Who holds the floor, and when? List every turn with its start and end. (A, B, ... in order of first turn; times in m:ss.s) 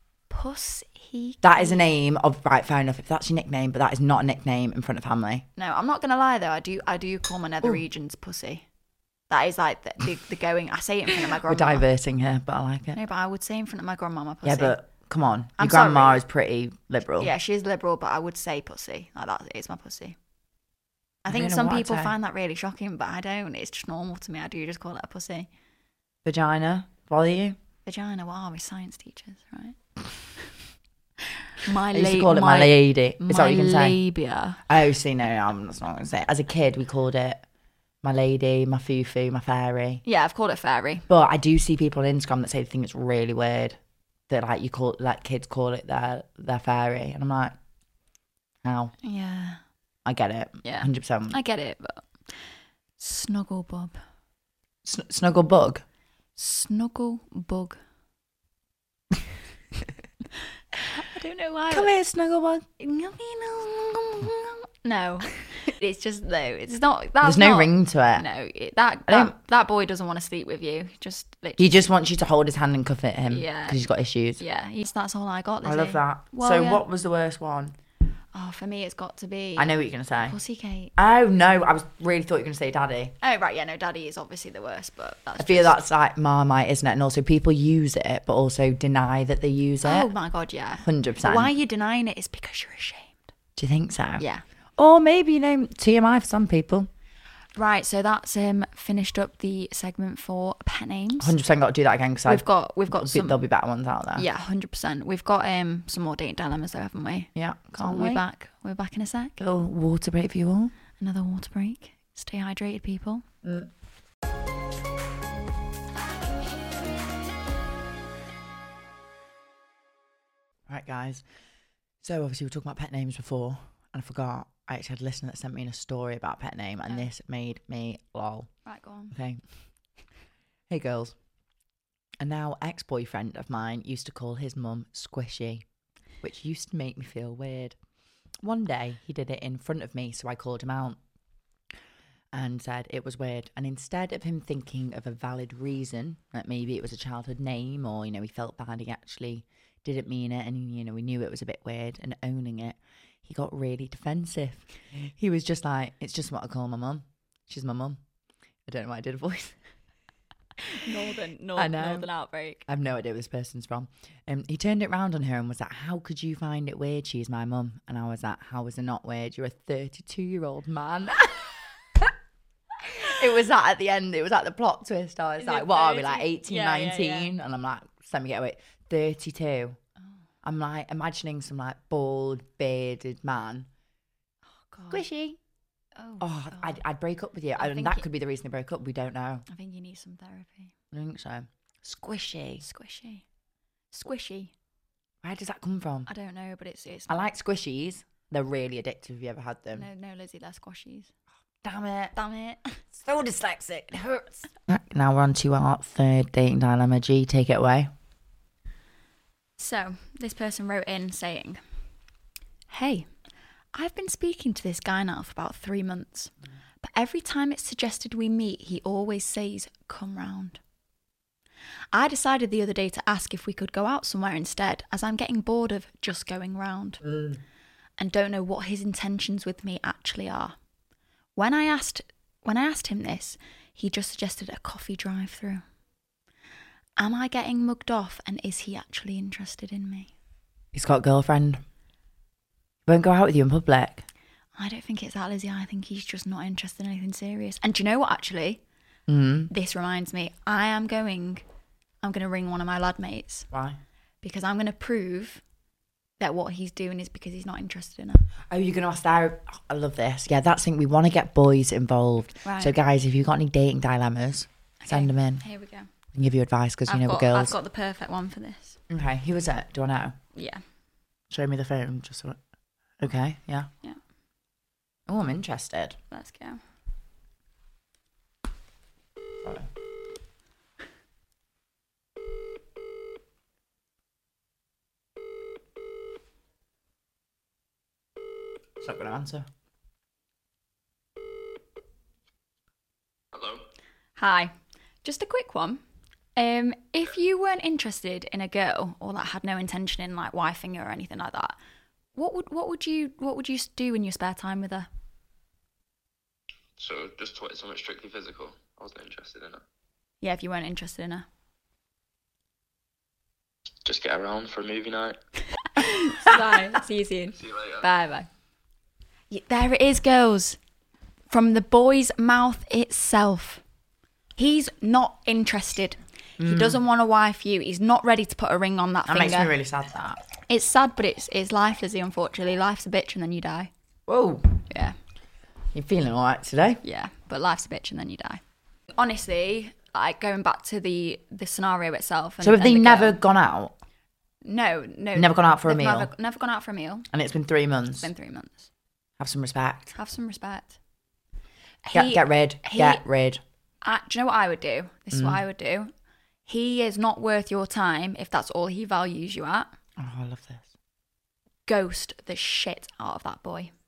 0:00.3-0:01.8 A
0:01.4-0:05.4 B
0:05.6-0:08.6 A
0:09.3-0:11.8 A
0:11.3-0:13.0 B
0:12.9-0:14.7 A
0:14.4-0:17.3 B
0:15.6-0:16.2 A
0:17.2-0:20.2 A
0:21.2-0:25.5 A
0:21.3-0:22.1 B
0:26.2-0:27.6 B
0:27.8-0:29.8 A
0:31.6-0:34.6 A
0:31.9-0:34.0 B
0:34.7-0:37.4 B
0:38.0-0:40.0 B
0:40.0-0:41.0 A
0:41.1-0:43.8 B
0:44.3-0:47.5 B
0:48.6-0:48.9 B
0:49.0-0:49.6 A
0:50.0-0:51.4 B
0:50.6-0:52.1 A
0:53.0-0:54.0 A
0:54.8-0:55.8 B
0:56.4-0:57.8 A
1:00.8-1:01.9 A
1:01.7-1:02.7 B
1:02.8-1:11.6 A
1:07.2-1:08.2 B
1:09.1-1:09.3 B
1:11.6-1:14.4 B
1:13.3-1:13.8 A
1:14.4-1:16.8 A
1:15.6-1:17.7 B
1:18.3-1:20.9 A
1:19.6-1:20.4 B
1:21.0-1:23.1 B
1:23.2-1:25.8 A
1:25.4-1:30.1 B
1:29.8-1:33.3 A
1:30.8-1:31.5 B
1:33.6-1:34.2 B
1:34.2-1:34.4 A
1:34.8-1:36.9 B
1:37.6-1:41.3 A
1:41.2-1:44.2 B
1:42.2-1:43.4 A
1:44.2-1:49.4 A
1:47.3-1:48.2 B
1:49.4-1:50.7 B
1:51.0-1:53.2 A
1:53.4-1:53.7 B
2:00.7-2:01.2 B
2:02.0-2:08.5 B
2:08.6-2:09.2 A
2:09.1-2:09.4 B
2:10.7-2:11.1 B
2:12.2-2:15.6 B
2:16.2-2:17.8 B
2:18.4-2:21.0 B
2:22.3-2:38.0 B
2:38.7-2:39.6 B
2:40.6-2:42.6 A
2:41.6-2:42.1 B
2:42.7-2:52.0 B
2:52.8-2:59.8 B
2:55.4-2:57.3 A
3:00.4-3:03.7 B
3:04.7-3:05.0 A
3:04.9-3:05.4 B
3:06.0-3:06.8 A
3:06.2-3:09.4 B
3:07.6-3:08.0 A
3:09.5-3:10.7 A
3:10.9-3:12.6 B
3:12.6-3:13.2 A
3:13.9-3:14.5 A
3:15.2-3:16.1 B
3:16.1-3:17.2 A
3:17.1-3:19.8 B
3:19.7-3:21.1 A
3:21.6-3:22.1 B
3:22.1-3:22.8 A
3:22.9-3:27.9 B
3:29.6-3:31.6 A
3:32.7-3:33.1 A
3:33.7-3:40.6 A
3:41.9-3:47.0 A
3:47.1-3:47.4 B
3:48.0-3:50.6 A
3:51.4-3:55.6 A
3:57.0-4:00.1 A
4:00.7-4:01.6 B
4:02.8-4:04.0 B
4:04.6-4:08.6 A
4:09.1-4:09.5 B
4:09.5-4:11.4 A
4:12.0-4:13.5 A
4:13.5-4:13.8 B
4:14.2-4:15.4 A
4:16.2-4:18.3 A
4:18.5-4:25.4 B
4:22.4-4:22.7 A
4:24.8-4:25.9 A
4:26.1-4:27.5 B
4:26.9-4:28.8 A
4:28.9-4:30.1 B
4:30.3-4:30.6 A
4:31.3-4:32.4 B
4:33.0-4:33.7 B
4:35.1-4:36.0 B
4:36.1-4:36.6 A
4:39.4-4:39.7 B
4:48.8-4:49.4 B
4:53.3-4:53.6 C
4:54.2-4:54.5 A
4:55.0-4:55.8 A
4:56.4-5:01.6 A
5:02.1-5:04.9 A
5:06.8-5:09.6 C
5:10.2-5:11.2 A
5:13.8-5:15.2 C
5:15.7-5:18.3 A
5:17.4-5:17.8 C
5:19.3-5:20.6 A
5:21.3-5:23.6 A
5:24.4-5:29.5 A
5:26.4-5:26.8 B
5:29.1-5:30.2 B
5:30.5-5:33.7 A
5:34.1-5:34.6 B
5:34.7-5:35.0 A
5:35.7-5:36.8 B
5:36.8-5:38.4 A
5:38.9-5:43.2 A
5:42.4-5:43.7 B
5:44.4-5:47.1 A
5:45.1-5:46.1 B
5:47.1-5:48.1 B
5:48.0-5:48.7 A
5:49.2-5:49.9 B
5:49.9-5:50.8 A
5:51.8-5:53.0 A
5:51.9-5:53.4 B
5:53.8-5:55.9 A
5:55.1-5:55.4 B
5:56.5-5:59.7 A
6:00.0-6:00.7 B
6:01.7-6:03.7 A